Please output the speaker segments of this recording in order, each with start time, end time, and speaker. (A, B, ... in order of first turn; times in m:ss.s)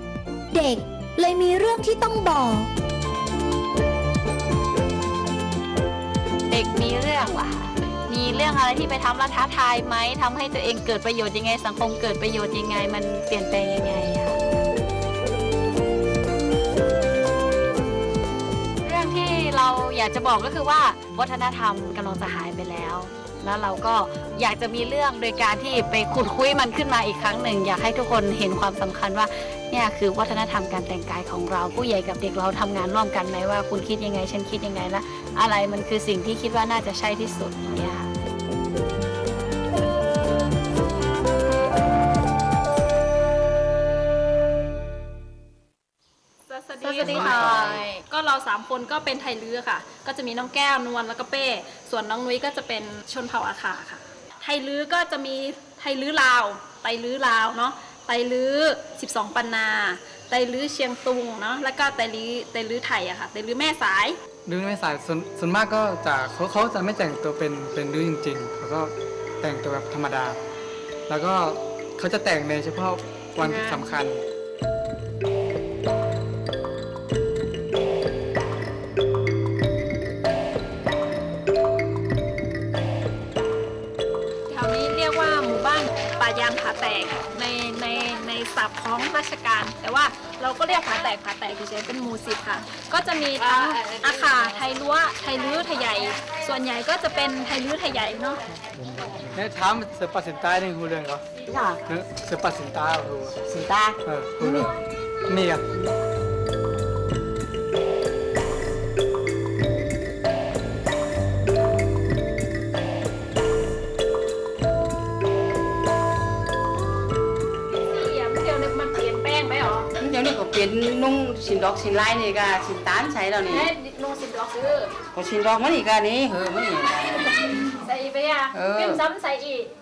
0:00.5-0:02.7 A
0:06.5-0:14.4 B
0:18.8-0:38.1 B
0:46.5-1:04.2 C
0:46.8-0:48.0 B
1:04.5-1:10.4 D
1:11.1-1:14.2 D
1:13.4-1:13.8 C
1:24.5-1:38.4 C
1:33.4-1:34.5 B
1:38.8-1:41.2 D
1:41.9-1:43.4 D
1:44.0-1:44.7 D
1:45.3-1:45.6 D
1:57.7-1:59.9 C
2:00.0-2:03.7 E
2:03.5-2:04.9 C
2:05.1-2:07.5 E
2:07.7-2:09.7 C
2:08.5-2:09.0 E